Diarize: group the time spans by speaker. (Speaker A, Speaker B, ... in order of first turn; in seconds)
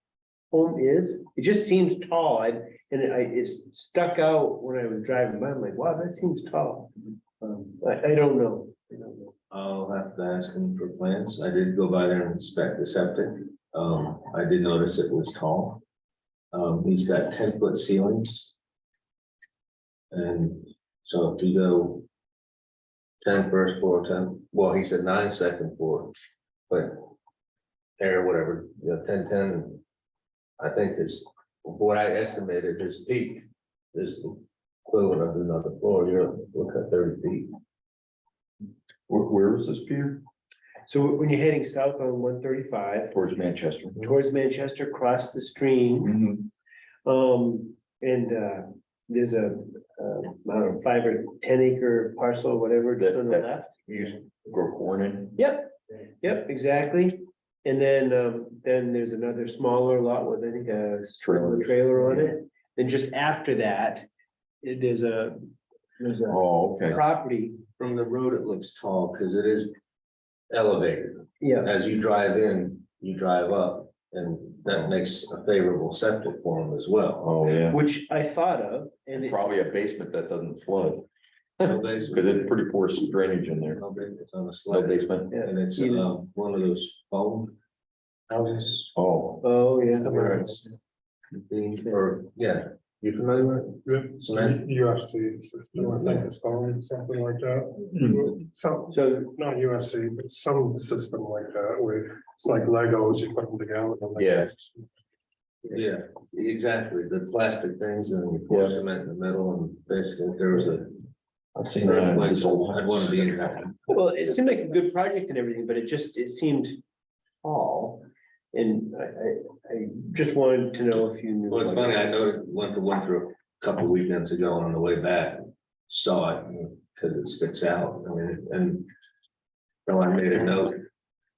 Speaker A: 0.5-9.3, 40.9-43.1, 44.0-46.1, 47.0-53.8, 55.4-64.1, 64.6-67.6, 71.4-71.7, 77.7-79.4, 85.3-86.1, 88.4-88.7, 89.4-90.5, 98.9-99.3, 113.9-116.8, 117.4-122.4
Speaker B: 9.5-15.8, 16.5-18.5, 20.1-22.0, 23.2-26.1, 26.7-27.1, 28.0-29.8, 30.6-37.5, 67.8-69.7, 70.5-77.3, 81.6-82.6, 83.8-87.5, 89.9-90.7, 91.3-94.6, 95.8-96.3, 105.7-111.0, 111.8-113.8, 121.5-128.9, 129.8-130.8
Speaker C: 39.1-40.2, 43.1-44.1, 46.0-46.5, 53.2-55.3, 61.3-61.7, 66.4-66.9, 77.2-77.7, 79.2-81.0, 81.6-83.8, 84.7-85.2, 89.0-89.4, 104.2-104.5, 111.5-113.5
Speaker D: 93.8-104.8